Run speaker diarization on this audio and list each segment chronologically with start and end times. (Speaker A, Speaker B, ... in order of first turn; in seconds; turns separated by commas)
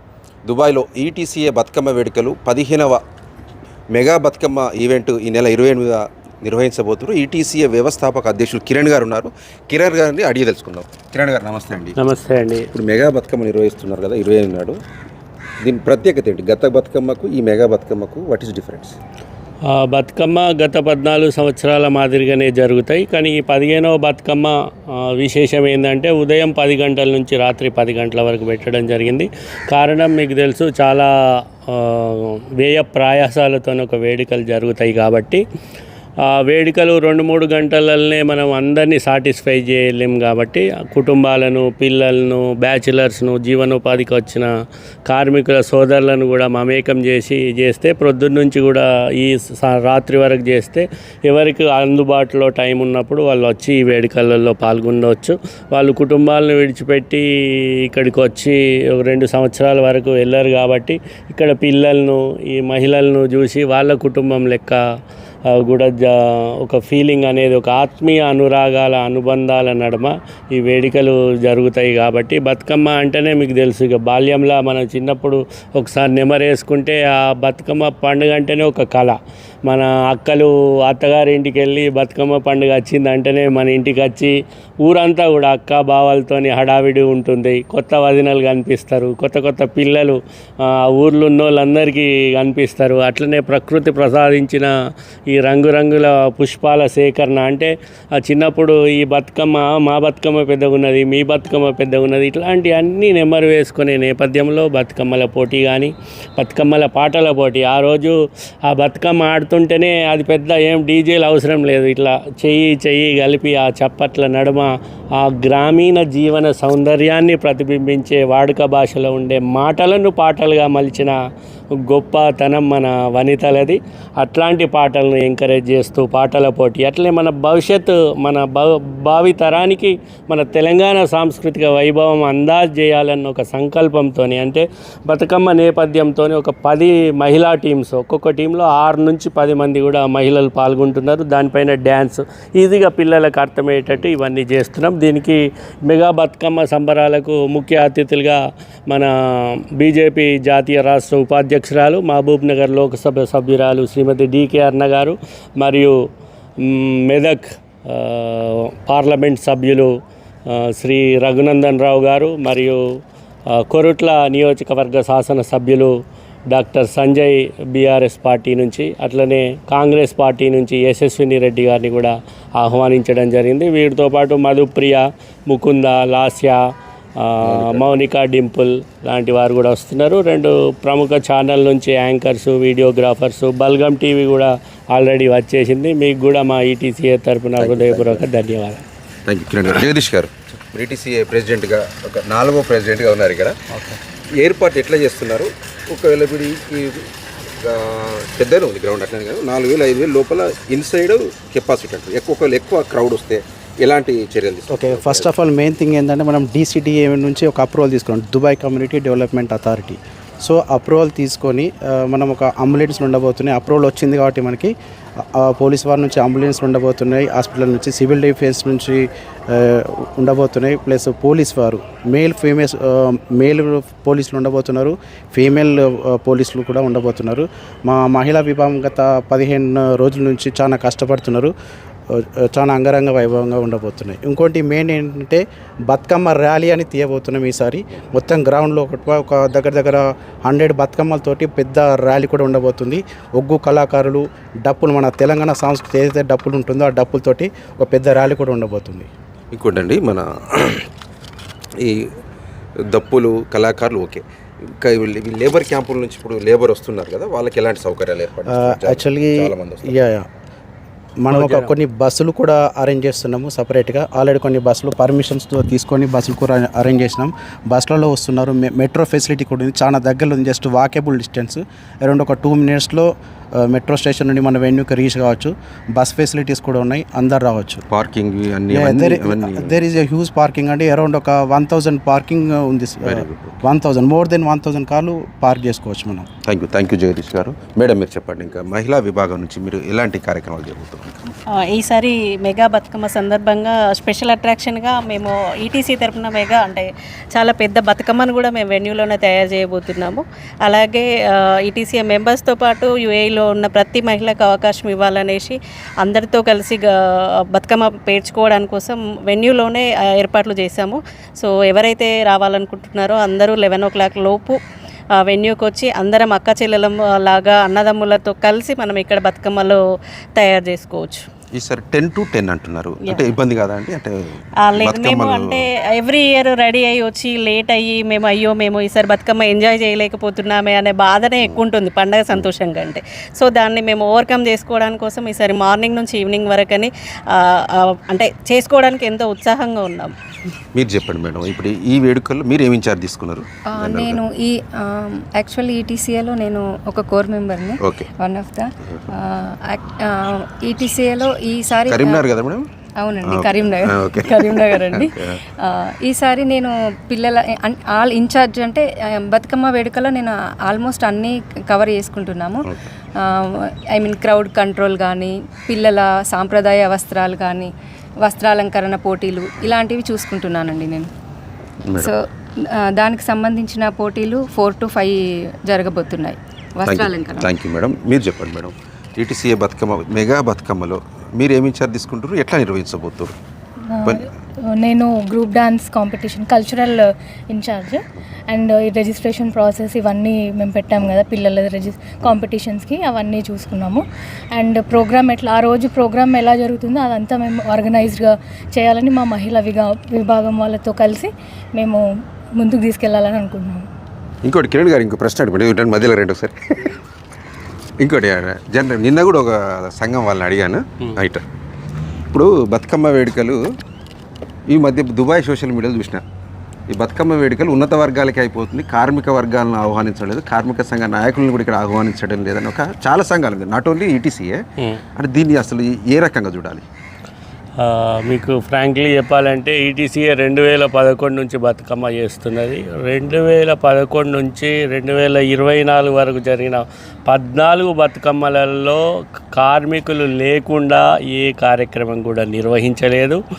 Speaker A: 0.5-3.0, Speaker A: 3.9-12.0, Speaker B: 12.0-12.7, Speaker A: 12.7-14.8, Speaker A: 15.6-18.9, Speaker B: 19.7-31.1, Speaker B: 31.7-35.4, Speaker B: 36.2-44.5, Speaker B: 45.1-64.8, Speaker B: 65.5-79.2, Speaker B: 79.7-94.7, Speaker B: 95.3-121.1, Speaker B: 121.8-155.9, Speaker B: 156.6-159.9, Speaker B: 160.5-162.8, Speaker B: 163.5-165.9, Speaker B: 166.5-176.6, Speaker B: 177.2-188.8, Speaker A: 177.4-177.9, Speaker A: 187.6-188.2, Speaker A: 189.2-193.6, Speaker C: 193.7-194.0, Speaker A: 194.4-205.3, Speaker C: 204.7-231.5, Speaker C: 232.1-249.1, Speaker A: 249.5-250.9, Speaker A: 251.8-252.1, Speaker A: 252.8-259.9, Speaker C: 258.5-260.3, Speaker C: 261.2-277.8, Speaker B: 261.3-261.7, Speaker A: 277.9-279.8, Speaker C: 278.7-286.3, Speaker A: 283.0-283.6, Speaker A: 286.4-291.2, Speaker D: 291.6-306.9, Speaker D: 307.5-314.6, Speaker D: 315.2-319.8, Speaker D: 320.4-321.3, Speaker A: 321.5-325.6, Speaker D: 323.0-323.3, Speaker D: 324.6-340.1, Speaker A: 340.7-344.2, Speaker E: 343.7-352.2, Speaker A: 347.8-348.1, Speaker A: 351.9-352.7, Speaker E: 353.0-367.7, Speaker A: 353.2-355.4, Speaker E: 368.2-371.1, Speaker A: 371.9-372.1, Speaker E: 372.0-377.5, Speaker A: 376.8-383.4, Speaker F: 383.9-402.0, Speaker F: 402.6-403.9, Speaker A: 404.4-406.9, Speaker A: 408.0-411.4, Speaker A: 412.3-413.6, Speaker A: 414.7-416.2, Speaker A: 416.9-424.6, Speaker A: 425.1-426.8, Speaker B: 427.8-439.0, Speaker B: 439.5-443.4